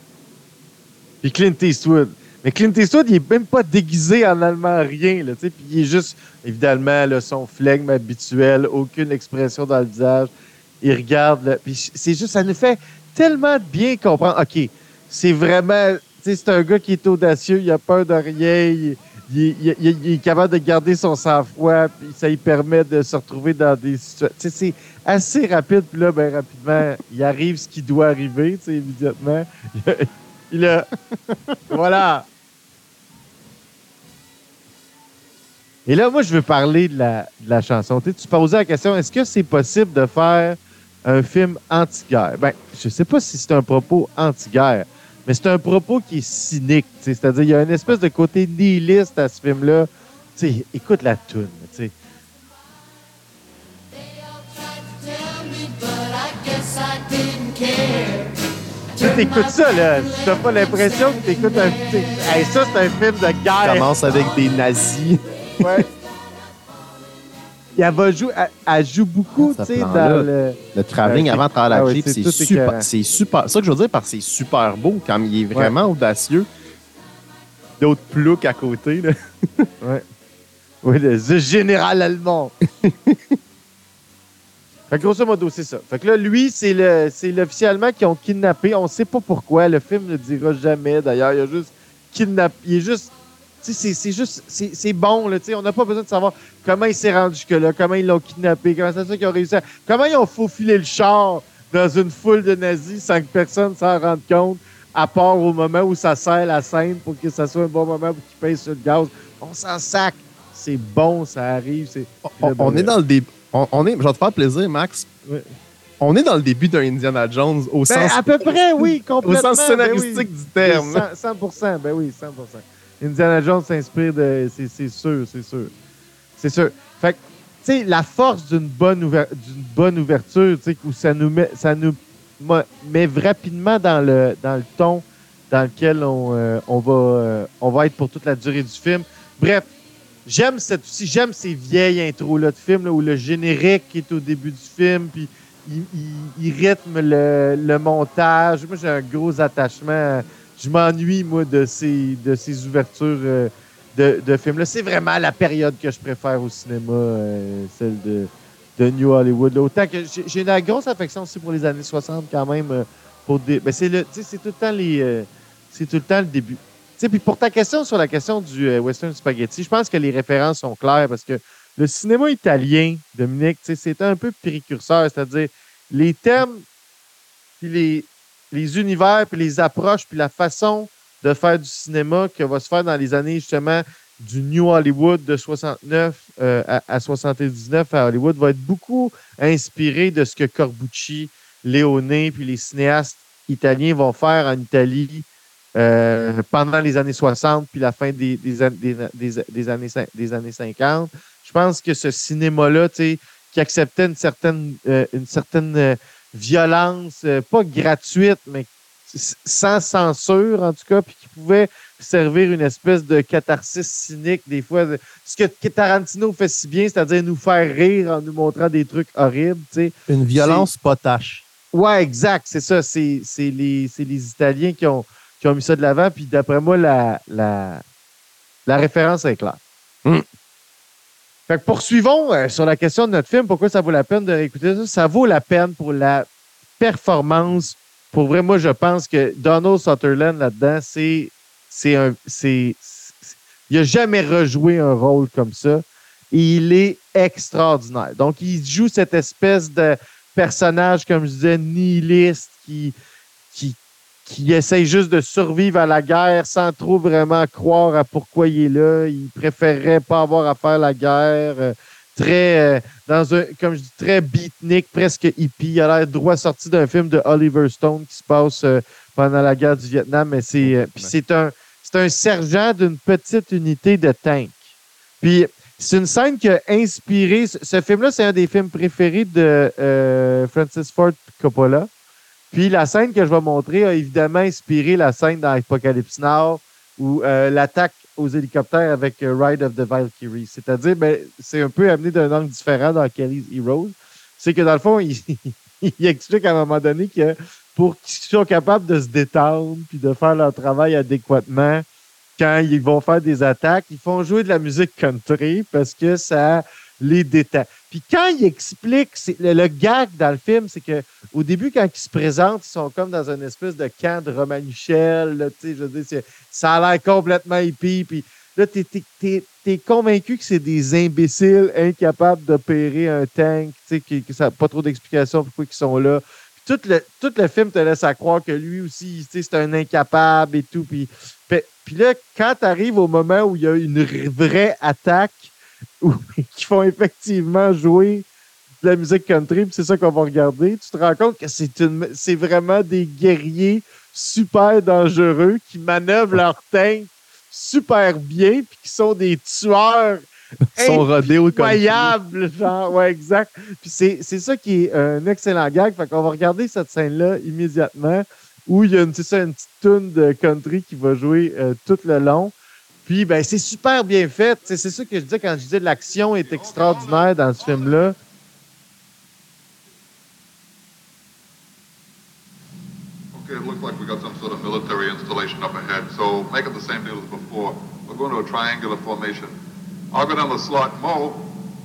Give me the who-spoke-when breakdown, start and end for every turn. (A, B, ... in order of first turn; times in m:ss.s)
0:01.2-0:10.3 A
0:10.8-0:30.9 A
0:31.3-0:31.8 B
0:31.7-0:32.3 A
0:35.9-0:51.9 A
0:59.0-1:03.9 A
1:03.6-1:05.8 B
1:05.6-1:05.8 A
1:07.8-1:12.9 A
1:09.4-1:16.5 B
1:17.8-1:19.6 B
1:20.8-1:22.5 A
1:22.8-1:23.3 B
1:24.9-1:33.1 A
1:33.6-1:52.9 A
1:52.2-1:55.1 B
1:56.0-2:01.0 B
1:57.9-2:05.7 A
2:06.4-2:19.7 A
2:20.2-2:56.6 A
2:57.6-3:15.2 A
3:15.8-3:40.7 A
3:40.1-3:41.4 B
3:41.7-3:47.8 A
3:48.7-3:49.6 A
3:51.5-3:56.3 A
3:56.8-4:12.9 A
4:13.5-4:34.6 A
4:30.6-4:31.1 B
4:35.2-4:41.9 A
4:42.5-5:01.8 A
5:02.4-5:38.2 A
5:38.8-5:50.2 A
5:50.8-5:52.2 B
5:50.8-6:02.5 A
6:03.0-6:08.2 A
6:13.3-6:19.5 C
6:20.1-6:21.5 C